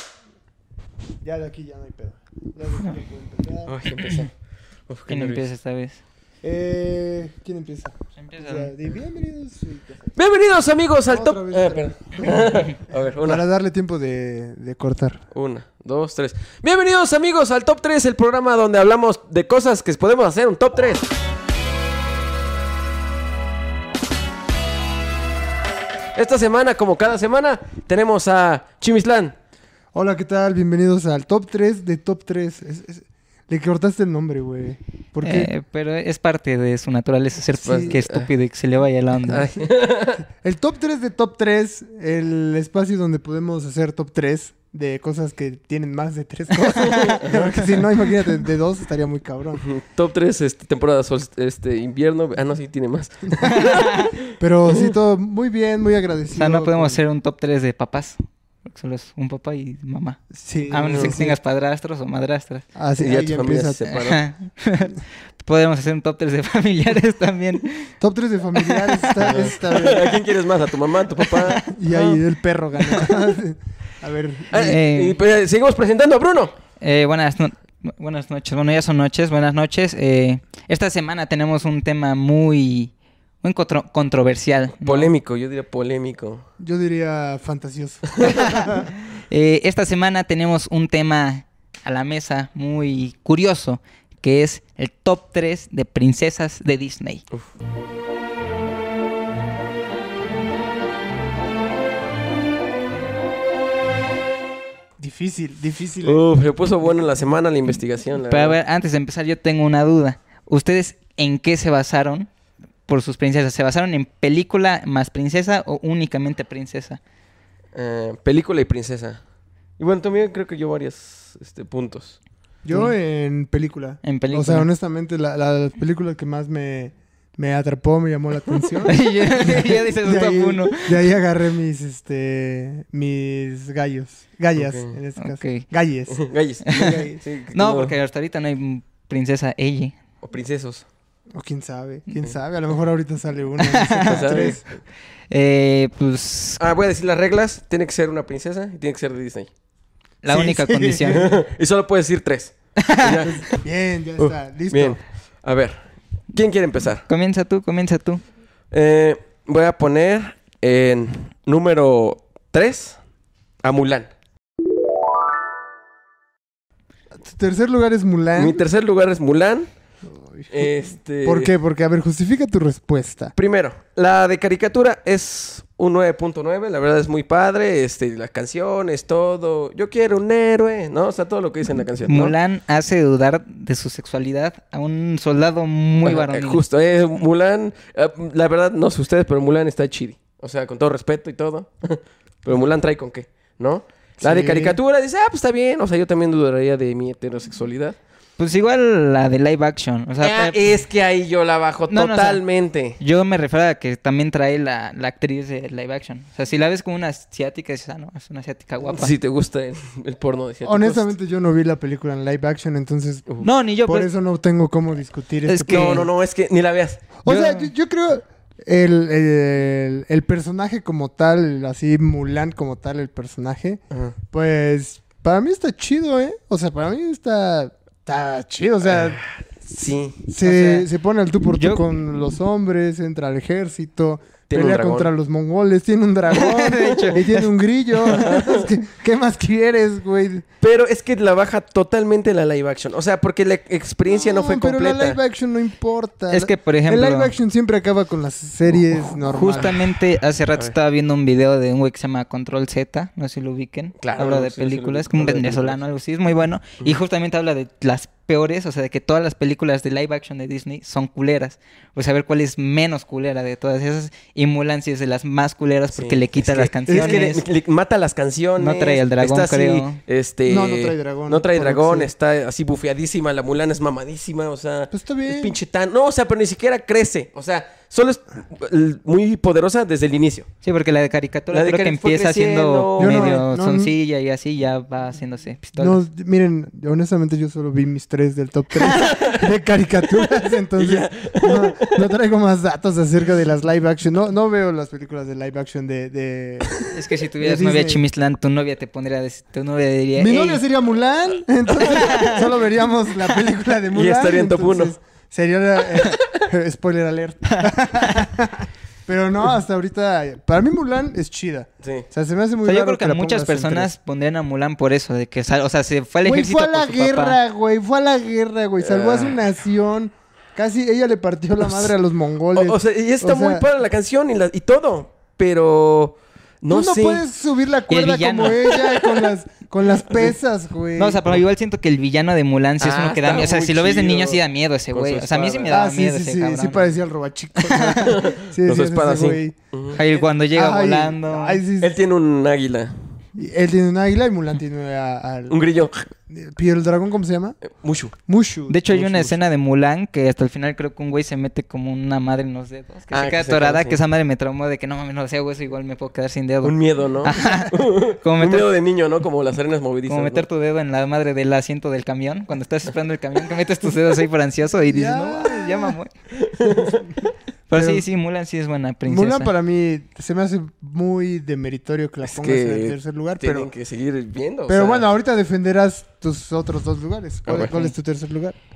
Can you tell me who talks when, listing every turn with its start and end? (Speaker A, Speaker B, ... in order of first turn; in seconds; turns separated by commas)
Speaker A: 1.2-3.7, Speaker B: 3.7-4.3, Speaker B: 4.9-5.4, Speaker C: 5.1-6.0, Speaker A: 6.4-10.1, Speaker C: 8.2-8.7, Speaker B: 10.2-13.4, Speaker A: 11.1-12.6, Speaker A: 13.2-15.2, Speaker B: 15.3-21.1, Speaker B: 26.1-29.3, Speaker A: 29.9-35.5, Speaker C: 35.2-39.5, Speaker B: 37.6-38.3, Speaker A: 37.7-37.9, Speaker B: 39.2-40.2, Speaker A: 40.4-49.6, Speaker B: 46.8-47.7, Speaker B: 49.6-54.1, Speaker C: 53.4-54.1, Speaker A: 54.3-57.0, Speaker C: 56.3-62.6, Speaker A: 60.4-61.4, Speaker A: 62.7-63.9, Speaker B: 63.0-64.2, Speaker C: 63.9-67.9, Speaker A: 68.0-70.2, Speaker C: 68.6-69.3, Speaker B: 69.2-71.8, Speaker C: 71.2-71.6, Speaker A: 71.7-74.8, Speaker C: 72.8-73.2, Speaker B: 74.5-76.5, Speaker C: 74.5-75.2, Speaker C: 76.8-85.1, Speaker B: 84.8-86.4, Speaker A: 86.6-88.9, Speaker C: 88.2-97.2, Speaker A: 105.0-106.2, Speaker B: 106.0-108.5, Speaker C: 108.3-112.3, Speaker C: 112.9-117.0, Speaker B: 117.7-119.2, Speaker B: 119.8-122.2, Speaker A: 122.6-137.2, Speaker C: 124.0-124.7, Speaker C: 128.8-131.1, Speaker B: 134.5-134.9, Speaker C: 135.2-135.6, Speaker B: 136.1-137.9, Speaker C: 136.7-139.9, Speaker B: 140.2-140.8, Speaker A: 141.3-144.6, Speaker C: 143.6-144.6, Speaker B: 144.1-144.8, Speaker C: 145.3-146.6, Speaker B: 146.6-149.5, Speaker C: 150.2-151.2, Speaker A: 150.3-151.4, Speaker B: 151.1-153.4, Speaker C: 152.8-153.2, Speaker A: 153.4-155.0, Speaker B: 154.2-157.1, Speaker C: 157.1-158.2, Speaker B: 158.7-163.0, Speaker B: 163.6-164.1, Speaker A: 167.2-168.6, Speaker B: 168.3-169.7, Speaker A: 170.2-170.7, Speaker B: 170.5-171.5, Speaker A: 171.2-173.3, Speaker B: 173.3-182.3, Speaker C: 182.1-186.6, Speaker B: 186.0-198.0, Speaker A: 194.2-194.8, Speaker C: 198.4-200.7, Speaker B: 200.2-203.0, Speaker C: 201.9-202.4, Speaker C: 203.0-209.1, Speaker B: 208.8-211.1, Speaker A: 210.6-216.1, Speaker C: 213.4-214.1, Speaker C: 215.4-216.1, Speaker B: 215.7-217.1, Speaker A: 217.2-229.2, Speaker C: 217.2-217.7, Speaker B: 223.9-224.2, Speaker B: 228.9-230.3, Speaker A: 230.3-240.4, Speaker C: 230.4-230.9, Speaker C: 231.6-231.8, Speaker B: 234.5-235.1, Speaker C: 236.3-237.5, Speaker C: 238.1-238.4, Speaker B: 238.1-238.7, Speaker B: 240.6-245.2, Speaker A: 244.1-249.8, Speaker C: 246.3-247.3, Speaker C: 249.3-267.4, Speaker B: 254.0-255.8, Speaker B: 265.9-280.5, Speaker A: 266.9-267.4, Speaker C: 268.6-270.0, Speaker A: 270.5-272.1, Speaker A: 274.9-275.5, Speaker C: 280.6-286.0, Speaker B: 281.5-283.4, Speaker A: 283.0-283.9, Speaker A: 285.8-298.0, Speaker C: 288.8-289.1, Speaker B: 289.0-289.4, Speaker B: 290.7-292.1, Speaker C: 296.9-300.6, Speaker A: 300.1-313.9, Speaker C: 301.7-302.5, Speaker B: 303.9-304.9, Speaker B: 306.0-306.4, Speaker C: 307.5-308.2, Speaker C: 312.6-317.4, Speaker A: 316.2-323.6, Speaker B: 318.8-319.4, Speaker B: 322.5-327.2, Speaker A: 326.7-331.3, Speaker C: 327.9-328.7, Speaker C: 330.9-336.9, Speaker B: 332.8-335.8, Speaker A: 335.7-341.9, Speaker C: 337.6-338.1, Speaker B: 338.0-340.0, Speaker C: 339.9-341.6, Speaker B: 341.8-342.9, Speaker A: 343.3-345.6, Speaker B: 345.5-346.1, Speaker A: 346.3-347.6, Speaker B: 347.6-348.1, Speaker A: 348.3-348.9, Speaker C: 348.7-358.7, Speaker B: 348.9-349.3, Speaker B: 353.1-354.0, Speaker B: 356.6-360.4, Speaker C: 360.1-366.1, Speaker A: 364.9-366.0, Speaker B: 366.3-367.1, Speaker A: 366.6-367.1, Speaker C: 367.7-369.5, Speaker A: 367.7-368.0, Speaker A: 369.1-373.7, Speaker B: 372.3-375.1, Speaker A: 374.7-378.6, Speaker B: 377.4-377.7, Speaker C: 377.7-377.9